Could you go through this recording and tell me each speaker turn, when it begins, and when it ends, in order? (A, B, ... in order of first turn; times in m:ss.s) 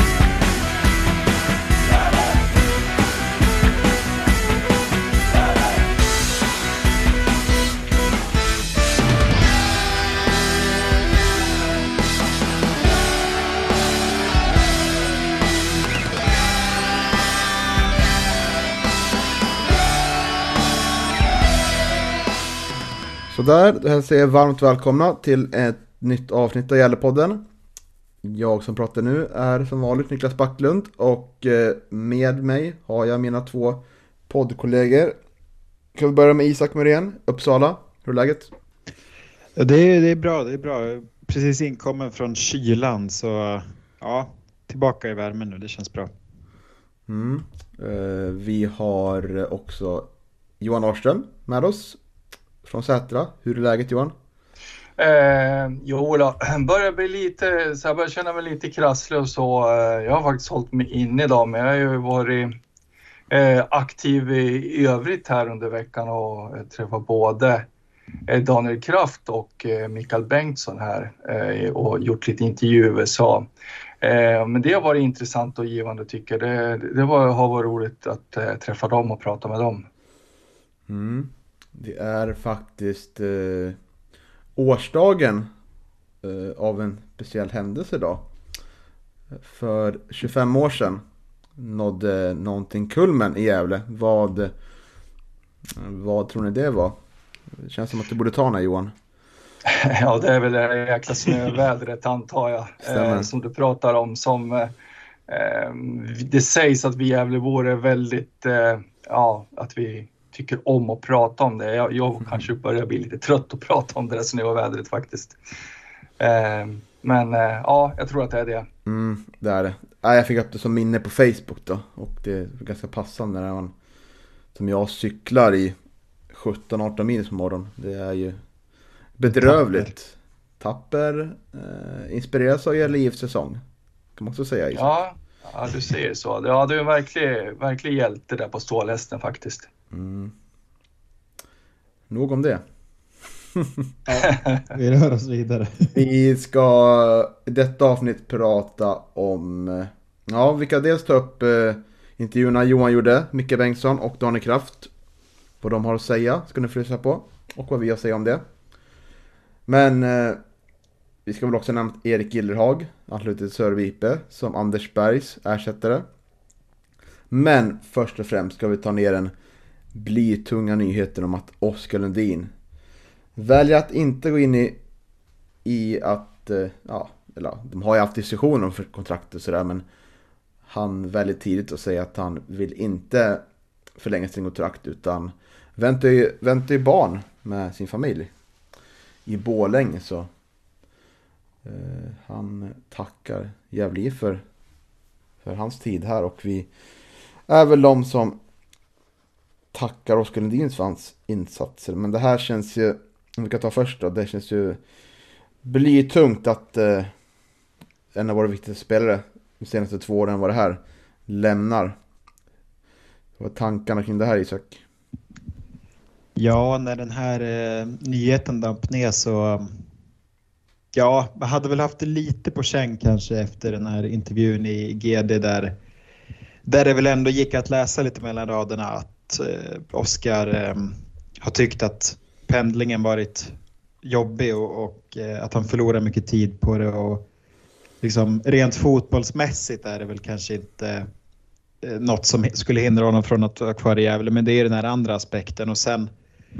0:23.3-0:27.4 A
0:28.2-0:35.2 A
0:35.9-0:38.5 A
0:39.6-0:46.1 B
0:47.1-0:52.0 A
0:52.6-0:54.1 A
0:55.0-1:02.5 C
1:03.3-1:07.7 C
1:08.3-1:13.5 C
1:14.0-1:19.9 C
1:20.9-1:23.8 A
1:24.6-1:25.5 A
1:26.2-1:28.3 A
1:29.3-1:31.0 A
1:31.6-1:34.5 A
1:35.7-1:37.0 A
1:37.5-1:38.9 A
1:39.7-1:44.7 C
1:42.8-1:43.3 A
1:45.3-1:55.4 C
1:56.2-1:58.7 C
1:58.8-2:03.7 A
2:04.5-2:05.8 A
2:06.3-2:08.4 A
2:09.2-2:13.6 A
2:09.3-2:09.9 B
2:14.2-2:15.0 A
2:14.7-2:19.7 C
2:19.9-2:20.3 A
2:22.1-2:22.6 A
2:23.6-2:23.8 A
2:24.1-2:25.9 B
2:25.9-2:34.9 A
2:35.6-2:38.4 A
2:39.7-2:40.4 A
2:41.2-2:46.0 A
2:47.3-2:49.3 A
2:49.9-2:52.5 A
2:53.4-2:54.8 A
2:55.6-2:59.8 A
3:00.6-3:03.4 A
3:04.0-3:08.3 A
3:09.2-3:10.3 A
3:11.6-3:14.4 A
3:15.4-3:16.7 A
3:17.5-3:18.4 A
3:19.7-3:24.8 A
3:25.6-3:27.1 A
3:28.1-3:32.0 A
3:33.4-3:34.8 A
3:36.4-3:39.8 B
3:40.9-3:45.7 B
3:46.6-3:57.2 B
3:58.0-4:01.1 B
4:01.8-4:06.1 B